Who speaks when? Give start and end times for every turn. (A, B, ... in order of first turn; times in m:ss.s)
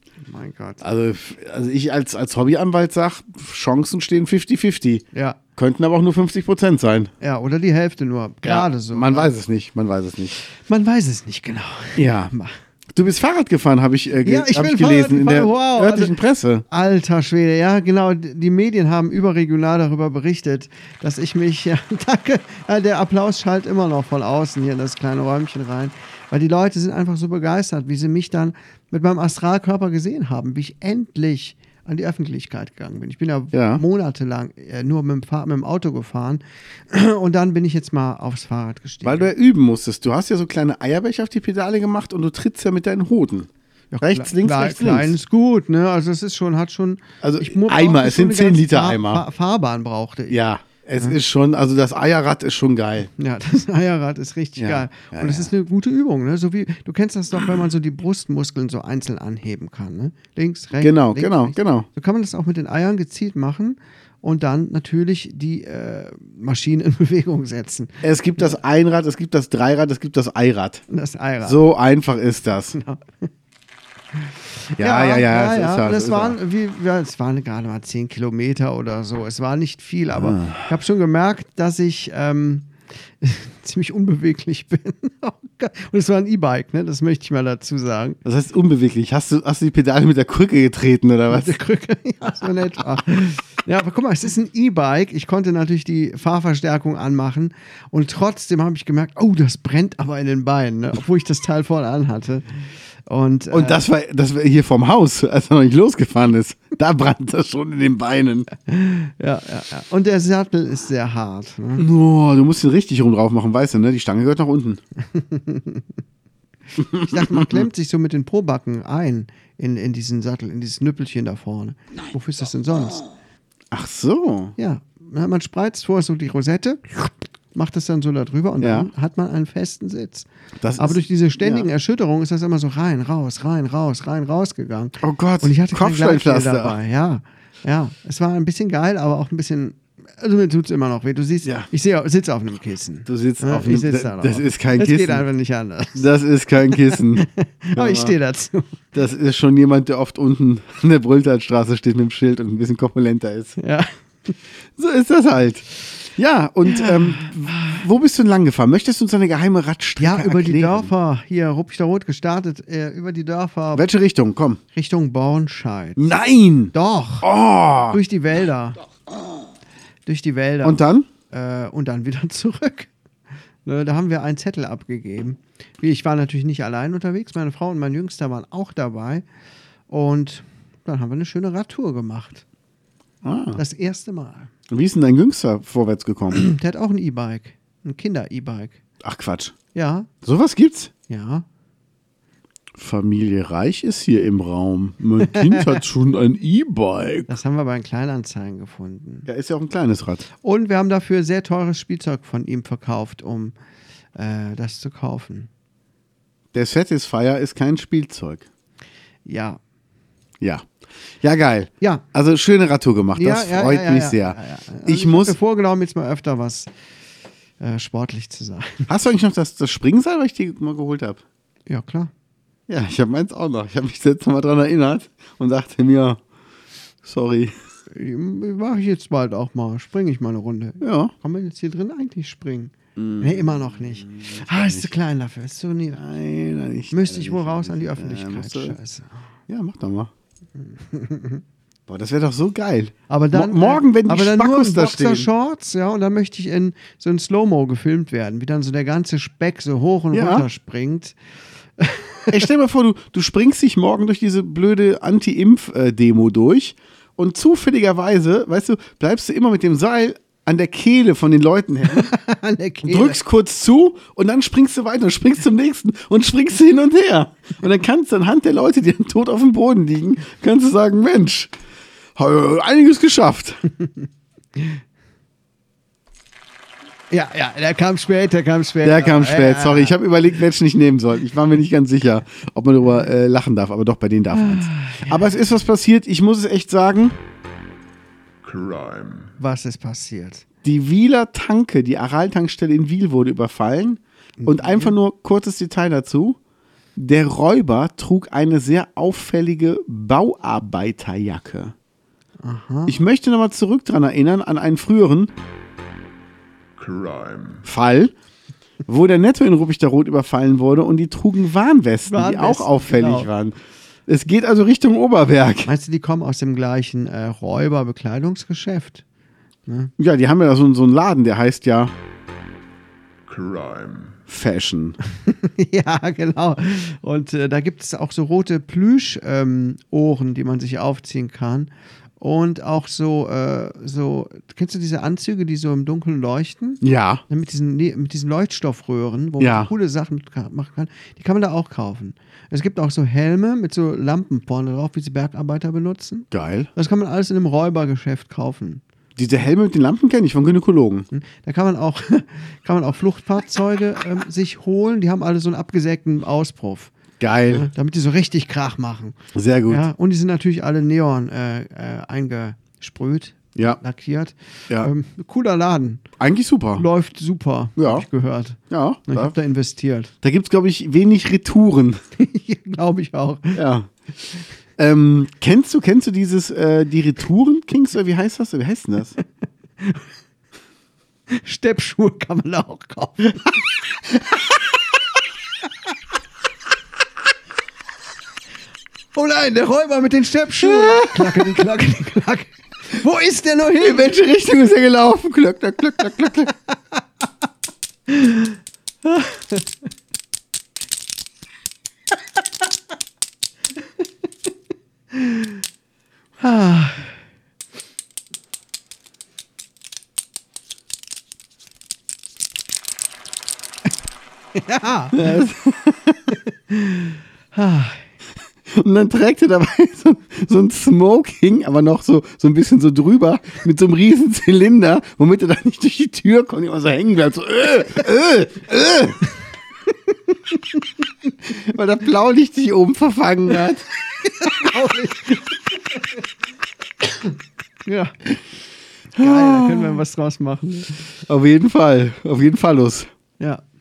0:00.2-0:00.8 A
0:00.8-0:05.1 B
0:05.1-0:05.4 A
0:05.6-0:07.1 B
0:07.2-0:09.3 A
0:08.4-0:10.4 B
0:10.5-0:12.6 A
0:12.0-0:12.3 B
0:12.9-0:16.7 B
0:14.2-0:16.2 A
0:16.7-0:39.3 A
0:33.5-0:33.8 B
0:39.0-0:43.5 B
0:43.9-0:50.4 A
0:44.0-0:45.2 B
0:47.2-0:49.2 B
0:50.3-0:53.1 B
0:53.2-1:08.0 A
0:54.6-0:55.5 B
1:00.8-1:01.9 B
1:08.0-1:10.8 B
1:10.9-1:11.6 A
1:11.4-1:12.8 B
1:12.8-1:13.3 A
1:14.8-1:22.7 A
1:14.8-1:16.4 B
1:20.1-1:20.6 B
1:23.2-1:28.2 A
1:28.2-1:31.6 B
1:31.3-1:43.8 A
1:43.5-1:48.5 B
1:48.7-1:51.8 A
1:51.8-1:54.8 B
1:55.1-1:55.9 A
1:56.8-1:57.7 B
1:56.8-2:03.0 A
2:03.7-2:04.6 B
2:04.6-2:10.3 A
2:08.6-2:08.9 B
2:10.6-2:11.7 B
2:10.8-2:26.1 A
2:15.0-2:16.8 B
2:23.1-2:25.3 B
2:26.0-2:28.2 B
2:26.7-2:28.7 A
2:28.9-2:33.6 B
2:33.6-2:34.3 A
2:34.8-2:40.9 B
2:36.6-2:37.8 A
2:40.0-2:43.9 A
2:43.8-2:44.6 B
2:44.7-2:46.1 A
2:46.0-2:48.0 B
2:46.7-2:47.3 A
2:47.9-2:48.8 A
2:50.1-2:52.9 A
2:50.6-2:51.1 B
2:53.6-2:59.2 A
2:59.9-3:02.4 A
3:03.2-3:03.6 B
3:03.6-3:04.5 A
3:04.7-3:06.4 B
3:06.3-3:08.8 A
3:09.0-3:09.6 B
3:09.7-3:10.1 A
3:10.2-3:10.9 B
3:11.1-3:11.4 A
3:12.8-3:17.3 B
3:15.2-3:15.8 A
3:17.3-3:19.3 A
3:19.3-3:20.2 B
3:20.4-3:23.6 A
3:24.2-3:25.5 A
3:26.5-3:28.5 B
3:29.2-3:29.6 A
3:30.4-3:30.7 B
3:31.2-3:35.4 B
3:33.2-3:36.7 A
3:37.6-3:38.9 A
3:38.9-3:41.2 B
3:41.7-3:42.1 A
3:42.7-3:46.2 B
3:47.0-3:47.5 B
3:47.9-3:56.0 A
3:50.8-3:51.1 B
3:53.0-3:54.9 B
3:56.0-3:58.8 B
3:56.9-3:59.1 A
3:59.5-4:00.1 B
4:00.8-4:01.4 A
4:01.9-4:05.3 B
4:03.1-4:11.2 A
4:10.1-4:10.5 B
4:11.8-4:12.4 A
4:12.3-4:22.1 B
4:21.9-4:23.2 A
4:22.8-4:31.5 B
4:32.2-4:33.6 B
4:37.1-4:40.0 A
4:38.8-4:47.2 B
4:44.3-4:45.2 A
4:48.4-4:49.3 C
4:49.4-4:50.4 A
4:50.6-4:56.4 B
4:54.4-4:55.0 A
4:57.0-5:01.8 B
5:02.4-5:03.0 A
5:02.9-5:05.3 B
5:06.8-5:07.6 C
5:07.6-5:08.1 B
5:08.9-5:15.7 B
5:12.1-5:13.3 A
5:15.7-5:19.0 A
5:19.7-5:19.9 A
5:20.0-5:21.9 B
5:23.3-5:24.2 C
5:24.3-5:25.0 B
5:25.2-5:48.8 A
5:36.8-5:37.2 B
5:39.4-5:39.7 B
5:46.3-5:46.7 B
5:49.2-5:51.1 B
5:51.1-5:56.9 A
5:57.2-5:57.7 B
5:57.5-6:06.0 A
5:59.3-5:59.8 B
6:06.2-6:06.9 B
6:06.8-6:10.1 A
6:07.8-6:08.1 B
6:08.7-6:09.4 B
6:10.2-6:12.0 B
6:12.2-6:13.6 A
6:13.6-6:13.9 B
6:14.8-6:19.2 B
6:21.3-6:23.5 A
6:29.2-6:34.2 A
6:30.6-6:31.7 B
6:33.8-6:36.5 B
6:36.5-6:37.0 A
6:38.1-6:39.7 A
6:45.1-6:45.6 A
6:46.4-6:47.2 A
6:54.6-6:55.3 A
6:55.1-6:56.2 B
6:56.7-6:58.0 A
6:58.7-7:09.2 B
7:11.5-7:13.9 B
7:14.4-7:15.5 A
7:17.8-7:18.2 A
7:19.2-7:21.1 A
7:19.2-7:20.0 B
7:21.3-7:23.1 B